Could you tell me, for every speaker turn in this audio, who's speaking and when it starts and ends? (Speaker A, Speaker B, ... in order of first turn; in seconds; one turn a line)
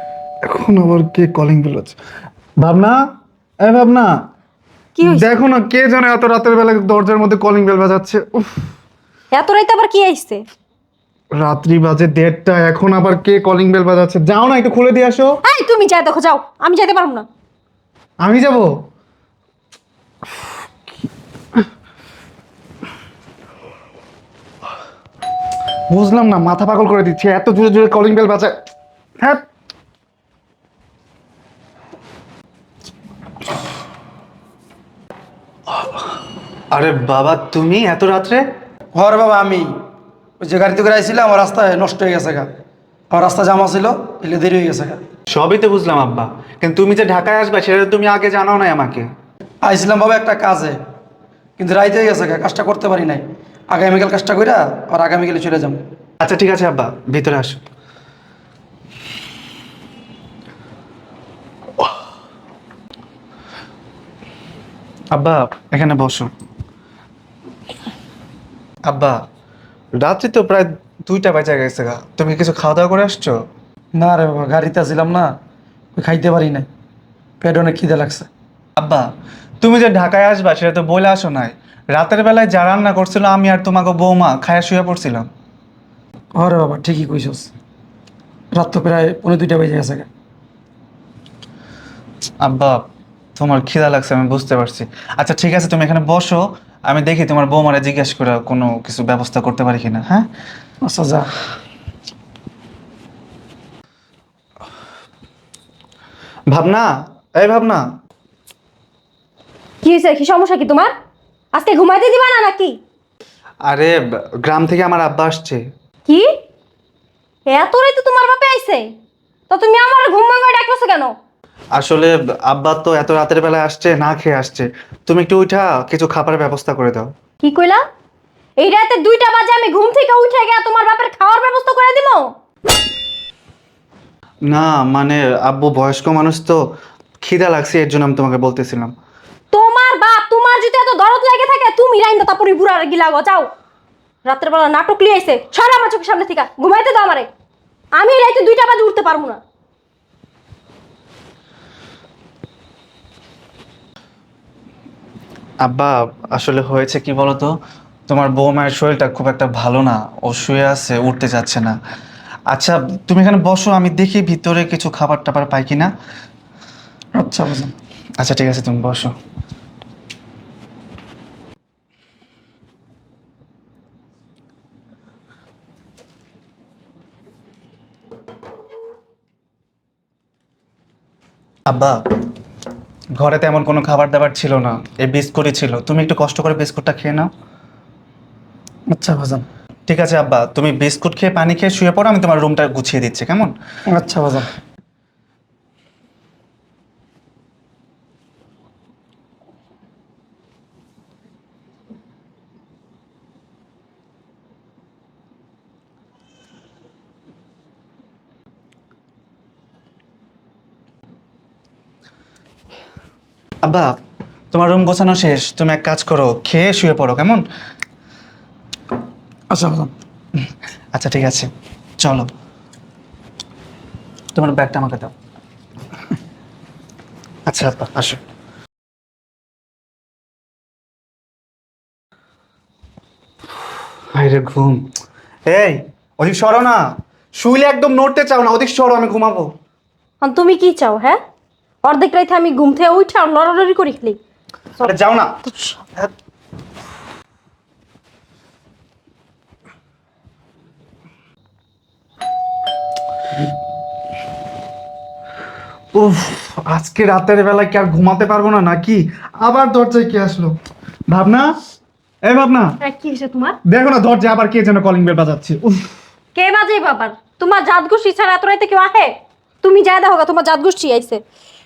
Speaker A: 0.5-2.0
Speaker A: 2.6-3.0
Speaker A: 3.6-4.1
Speaker B: 5.0-5.3
Speaker A: 5.0-8.6
Speaker B: 9.3-10.4
Speaker A: 11.3-15.3
Speaker B: 15.4-17.2
Speaker A: 18.2-18.7
Speaker A: 25.9-28.5
Speaker A: 35.7-36.0
Speaker A: 36.7-38.4
Speaker C: 38.9-39.7
Speaker C: 40.4-42.5
Speaker C: 43.1-45.0
Speaker A: 45.3-49.1
Speaker C: 49.6-50.8
Speaker C: 51.6-55.8
Speaker A: 56.2-57.6
Speaker A: 65.1-66.3
Speaker A: 68.9-69.2
Speaker A: 70.0-73.3
Speaker C: 74.0-75.3
Speaker C: 76.0-76.7
Speaker C: 77.4-78.3
Speaker A: 78.8-79.0
Speaker A: 79.6-85.3
Speaker C: 86.3-87.5
Speaker C: 88.5-90.1
Speaker A: 92.4-92.8
Speaker A: 93.4-100.3
Speaker C: 100.8-101.3
Speaker A: 106.5-107.8
Speaker B: 109.8-110.9
Speaker B: 111.5-112.8
Speaker A: 113.7-115.6
Speaker B: 117.5-118.8
Speaker B: 119.5-121.1
Speaker A: 121.7-127.1
Speaker B: 127.4-127.8
Speaker B: 128.6-132.3
Speaker A: 134.5-136.6
Speaker A: 137.2-138.9
Speaker B: 139.5-143.5
Speaker B: 144.2-147.3
Speaker B: 147.9-149.4
Speaker A: 155.6-157.5
Speaker A: 158.1-161.7
Speaker A: 162.5-165.9
Speaker C: 167.2-167.7
Speaker A: 168.2-169.1
Speaker A: 181.7-182.0
Speaker A: 183.2-187.3
Speaker C: 188.9-189.4
Speaker A: 189.9-193.5
Speaker C: 193.9-194.5
Speaker A: 213.6-213.9
Speaker A: 214.5-217.4
Speaker C: 219.5-219.9
Speaker A: 220.9-221.5
Speaker A: 222.0-222.3
Speaker A: 224.3-225.1
Speaker A: 227.5-228.2
Speaker A: 234.1-234.9
Speaker A: 235.5-239.5
Speaker B: 240.2-241.2
Speaker B: 241.8-244.2
Speaker A: 244.8-245.4
Speaker A: 255.9-260.5
Speaker A: 261.1-261.5
Speaker A: 262.2-262.8
Speaker B: 262.8-263.6
Speaker A: 263.7-265.9
Speaker B: 266.3-269.1
Speaker B: 269.6-271.2